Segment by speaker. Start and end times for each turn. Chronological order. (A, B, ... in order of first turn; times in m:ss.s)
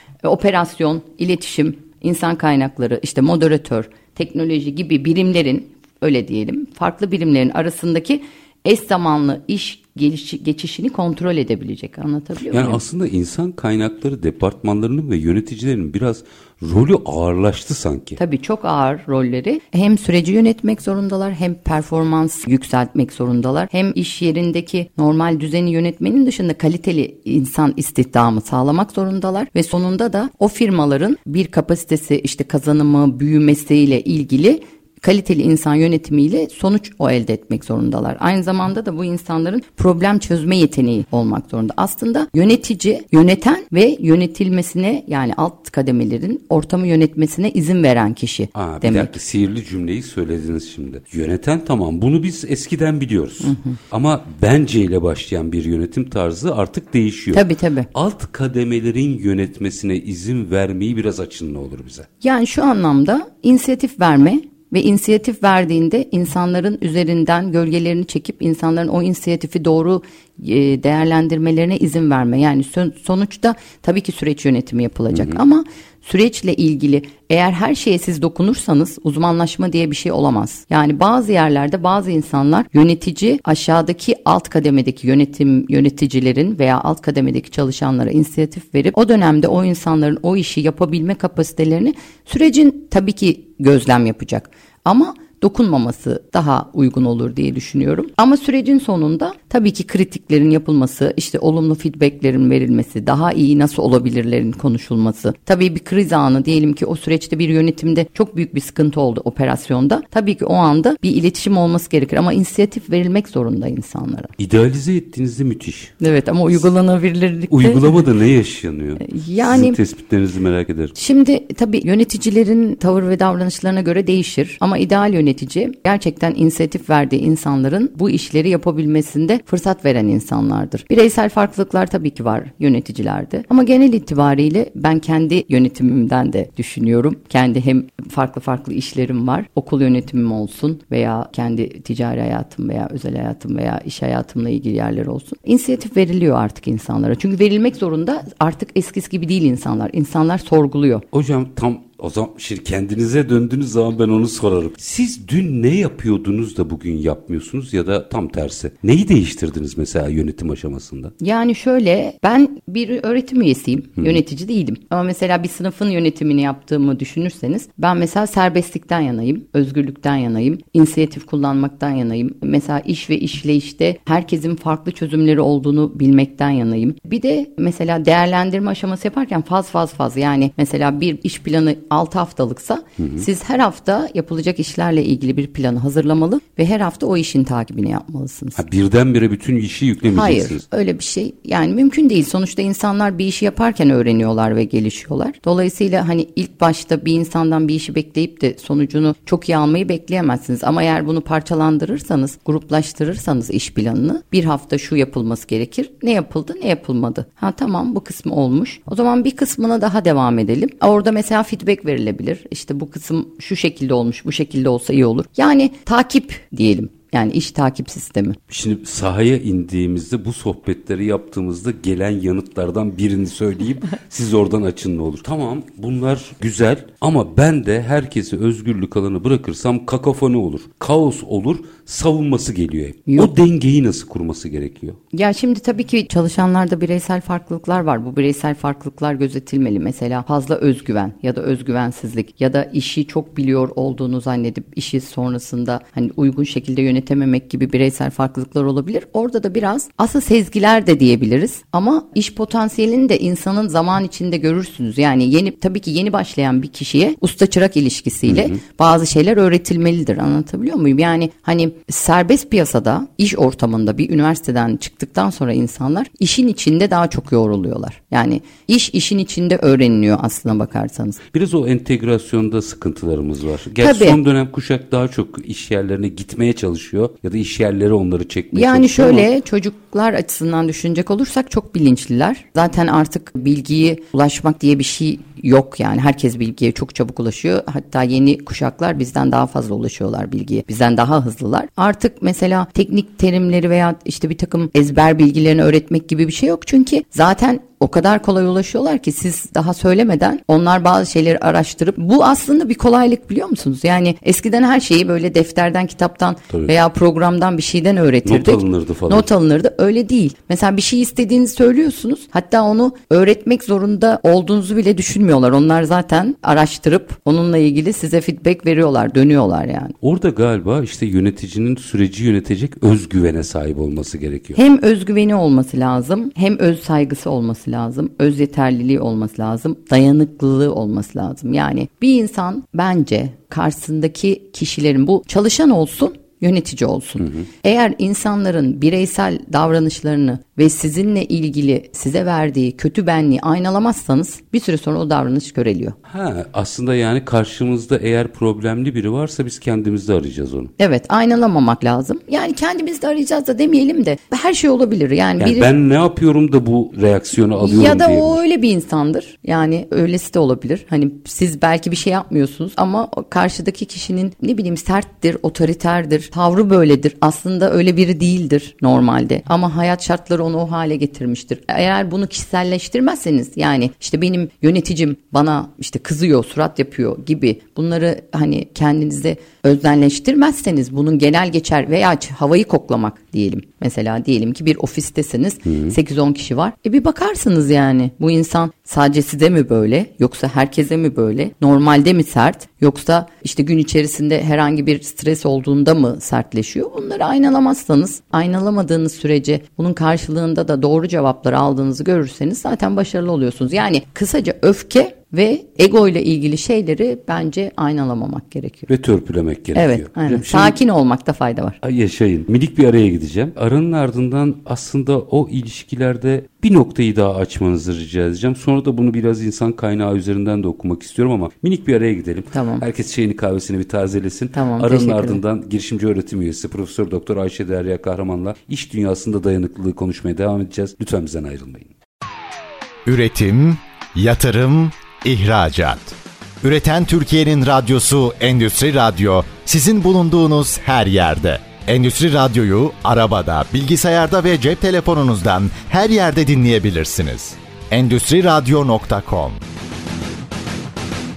0:00.2-0:12.8 A
0:12.5-0:18.2 B
0:18.2-0:49.1 A
0:48.6-1:02.1 B
0:53.4-0:53.8 A
0:57.3-0:57.9 A
1:02.2-1:54.3 A
1:15.1-1:15.4 B
1:54.4-1:55.9 B
1:56.0-1:58.0 A
1:57.5-2:01.0 B
1:59.0-1:59.8 A
2:01.0-2:31.0 A
2:31.1-2:41.1 B
2:41.2-3:08.6 A
3:03.0-3:03.3 B
3:08.6-3:10.6 B
3:10.1-3:38.4 A
3:38.5-3:55.0 B
3:53.1-3:53.3 A
3:55.1-4:31.2 A
4:18.3-4:18.6 B
4:31.3-4:39.3 B
4:33.8-4:34.2 A
4:38.5-5:20.0 A
5:08.2-5:09.3 B
5:20.0-5:24.6 B
5:24.6-5:46.0 A
5:46.1-5:50.7 B
5:50.8-5:55.7 A
5:55.4-5:58.4 B
5:57.6-6:48.9 A
6:25.7-6:26.0 B
6:48.9-6:50.8 B
6:49.7-6:51.8 A
6:51.8-7:11.9 B
7:02.5-7:02.8 A
7:04.5-7:05.4 A
7:13.1-7:29.6 C